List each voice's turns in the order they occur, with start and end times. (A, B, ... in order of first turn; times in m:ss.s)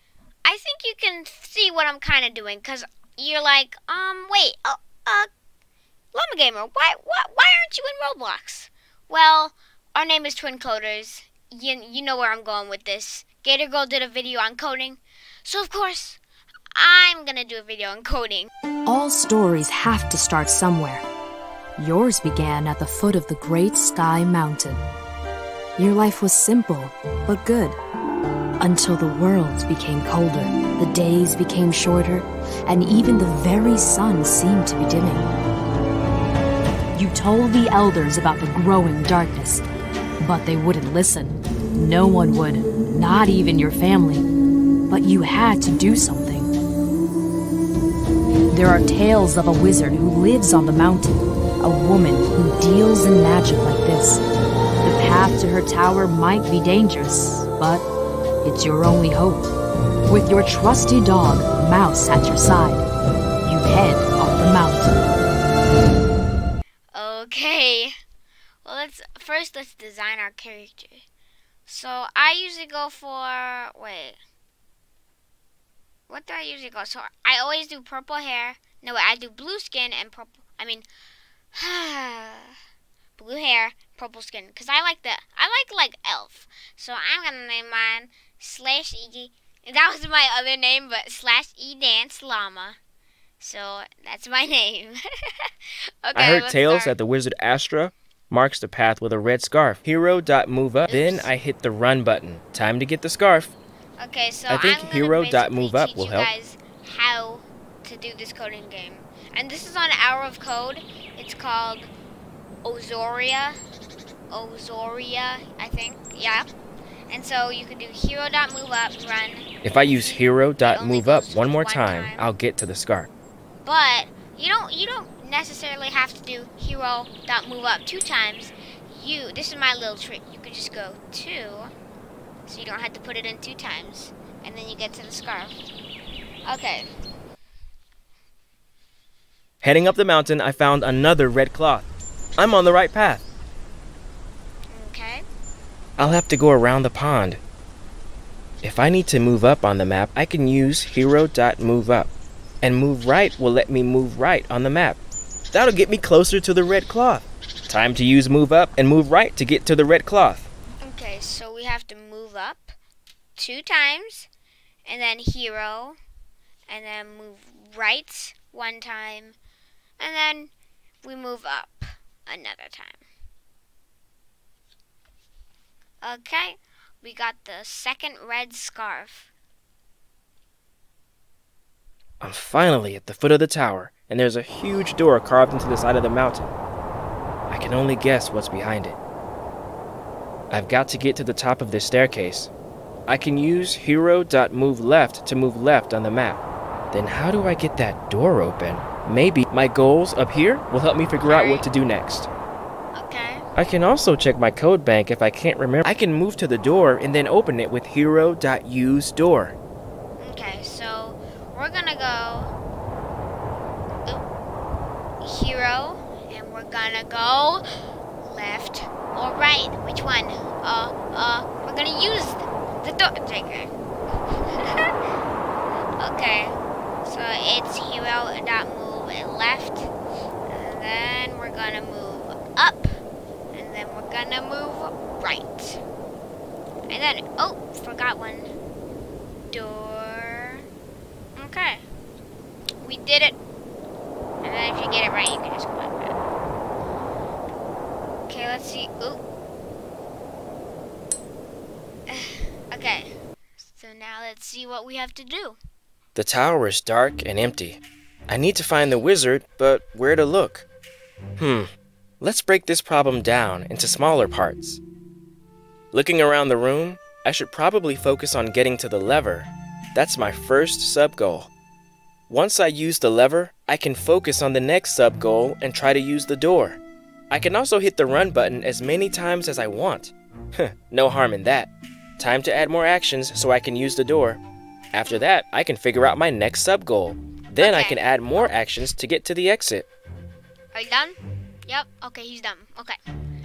0:00.4-0:05.3 A
0:06.1-0:16.2 A
0:16.7-0:18.5 A
0:18.8-0:21.0 B
0:21.8-0:24.8 B
0:25.8-0:27.8 B
0:28.6-0:35.3 B
0:36.9-0:39.6 B
0:40.2-0:44.2 B
0:44.9-0:46.5 B
0:48.5-0:54.2 B
0:54.8-0:57.8 B
0:58.4-0:59.5 B
1:00.1-1:02.8 B
1:03.4-1:04.9 B
1:06.9-1:07.9 A
1:08.6-1:11.0 A
1:11.6-1:14.2 A
1:16.1-1:20.8 A
1:21.5-1:22.5 A
1:23.2-1:32.8 A
1:33.4-1:35.0 A
1:36.0-1:36.9 A
1:36.1-1:43.6 C
1:40.9-1:41.3 A
1:44.0-1:51.9 A
1:44.5-1:46.3 C
1:52.6-1:53.6 A
1:54.3-1:56.5 A
1:57.1-2:02.3 A
1:59.6-2:03.1 C
2:03.6-2:11.7 A
2:12.4-2:15.6 A
2:16.5-2:16.9 A
2:19.6-2:23.2 C
2:24.7-2:25.2 A
2:26.0-2:27.4 C
2:28.6-2:32.1 C
2:32.6-2:35.0 C
2:35.5-2:40.5 C
2:40.8-2:42.7 A
2:43.4-2:44.3 A
2:44.8-2:46.0 A
2:46.7-2:49.4 A
2:50.0-2:50.5 A
2:51.0-2:53.0 A
2:56.0-2:59.3 A
3:02.2-3:06.5 C
3:07.5-3:09.0 C
3:10.5-3:12.5 C
3:13.1-3:22.3 C
3:21.2-3:21.7 A
3:22.9-3:23.4 A
3:23.6-3:29.6 C
3:30.2-3:32.5 A
3:35.2-3:37.6 A
3:38.2-3:43.7 A
3:44.5-3:44.9 A
3:46.0-3:49.9 A
3:50.5-3:52.9 A
3:53.5-3:55.8 A
3:56.9-3:58.5 A
3:59.5-4:00.6 A
4:01.4-4:01.8 A
4:02.8-4:03.4 A
4:04.4-4:06.1 A
4:08.3-4:09.2 A
4:12.1-4:15.6 A
4:16.1-4:20.6 C
4:21.4-4:24.8 C
4:25.9-4:31.5 C
4:32.3-4:36.8 C
4:37.3-4:44.4 C
4:44.9-4:49.9 C
4:47.6-4:48.5 A
4:50.7-4:53.0 A